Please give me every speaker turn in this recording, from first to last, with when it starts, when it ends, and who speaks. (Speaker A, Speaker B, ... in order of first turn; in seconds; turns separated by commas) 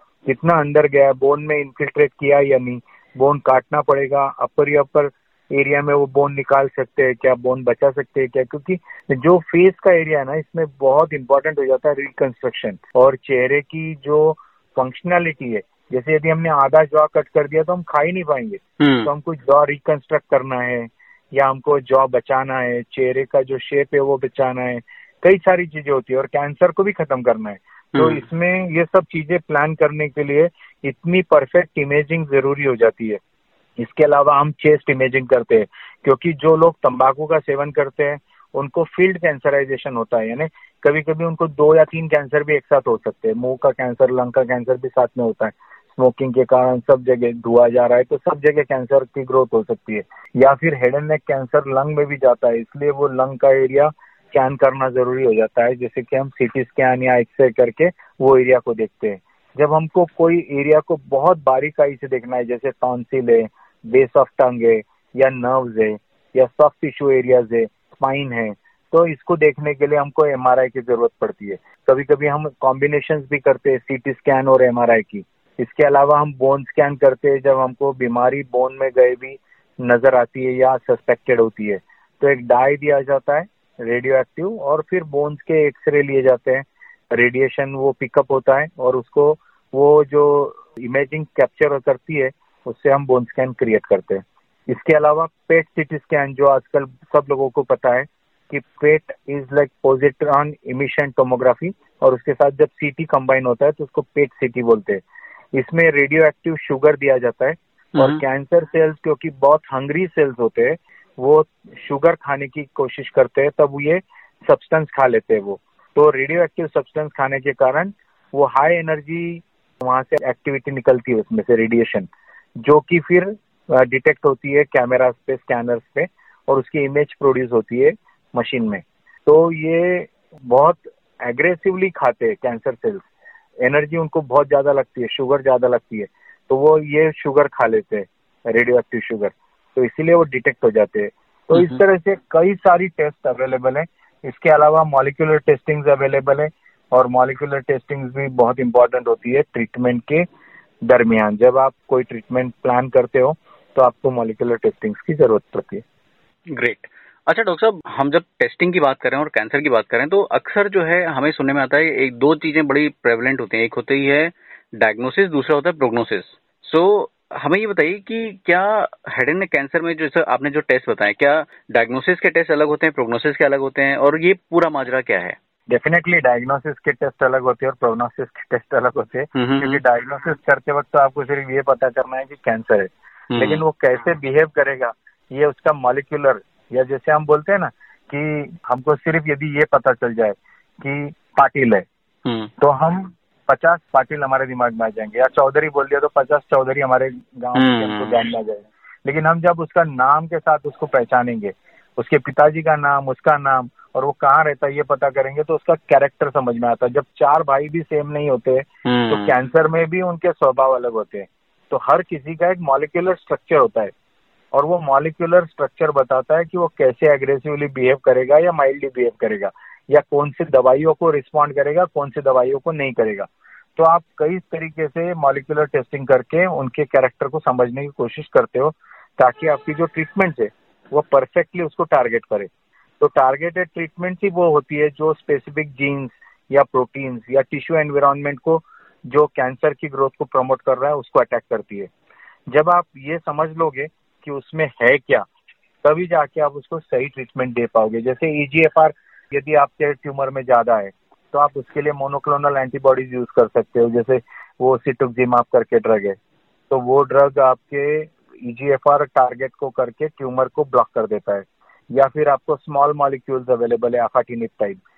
Speaker A: 0.2-33.2, Speaker B: 18.8-19.1, Speaker B: 27.9-28.2, Speaker A: 33.8-105.0, Speaker A: 105.5-122.1, Speaker B: 107.9-108.2, Speaker A: 122.6-133.0, Speaker A: 133.6-150.2, Speaker B: 141.5-141.8, Speaker A: 150.8-155.8, Speaker B: 156.5-175.3, Speaker A: 175.7-191.8, Speaker B: 179.3-179.8, Speaker B: 183.3-183.6, Speaker A: 192.6-213.9, Speaker B: 197.5-198.2, Speaker B: 208.8-209.3, Speaker A: 214.5-241.9, Speaker A: 242.5-245.2, Speaker A: 245.8-256.2, Speaker A: 256.7-264.8